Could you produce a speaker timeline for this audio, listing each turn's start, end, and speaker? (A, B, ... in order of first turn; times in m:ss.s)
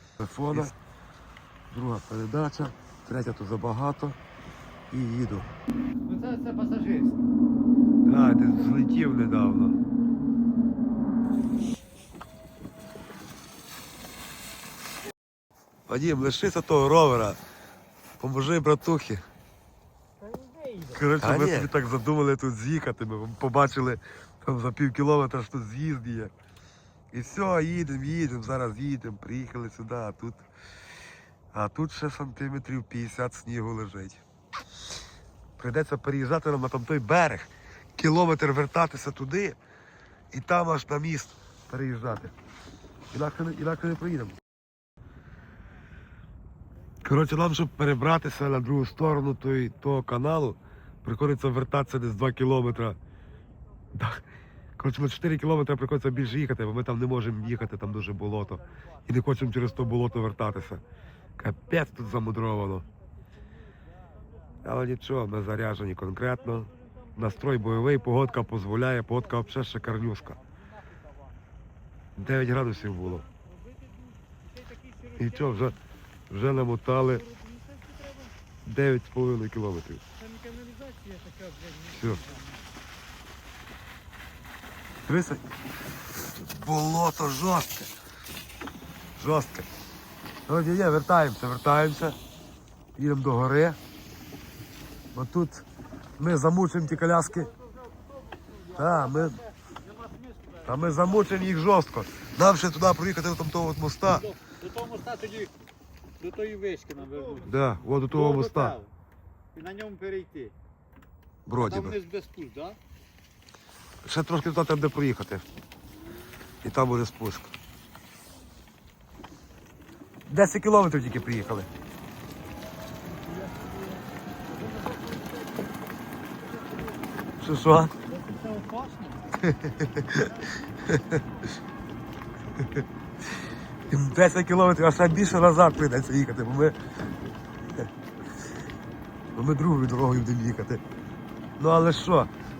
0:00.2-0:00.7 A
0:01.7-0:04.2 A
0:04.9-0:05.5 A
0:06.0-0:07.2 B
0:08.1-0:09.8 A
0:15.9-0:17.4 A
0:18.2-0:19.2 A
0:20.3-0:21.0 B
0:21.0-0:26.3 A
0:27.1-0:30.5 A
0:31.5-0:34.2 A
0:35.6-0:39.6 A
0:40.3-0:42.3 A
0:43.1-0:44.4 A
0:47.0-0:53.0 A
0:54.0-0:54.2 A
0:54.8-1:00.8 A
1:01.4-1:02.9 A
1:04.6-1:10.4 A
1:12.2-1:13.2 A
1:14.7-1:15.3 B
1:15.2-1:15.8 A
1:16.3-1:17.2 A
1:18.6-1:20.0 A
1:20.2-1:22.4 B
1:21.9-1:22.3 A
1:25.1-1:25.4 A
1:26.2-1:27.9 A
1:29.2-1:29.7 A
1:30.5-1:32.2 A
1:33.0-1:33.8 A
1:35.1-1:35.7 A
1:36.2-1:37.5 A
1:37.1-1:41.5 B
1:38.7-1:39.4 A
1:40.6-1:44.3 A
1:44.1-1:45.5 B
1:46.2-1:47.5 B
1:47.4-1:48.8 A
1:48.1-1:48.9 B
1:49.5-1:50.6 B
1:51.5-1:52.0 A
1:51.6-1:52.8 B
1:54.0-1:55.5 A
1:56.6-1:57.5 A
2:00.3-2:01.7 A
2:03.1-2:05.7 B
2:07.4-2:07.9 A
2:08.0-2:09.3 B
2:09.4-2:10.3 A
2:10.1-2:10.5 B
2:10.9-2:11.2 A
2:13.9-2:16.8 A
2:19.4-2:20.8 A
2:21.6-2:22.3 A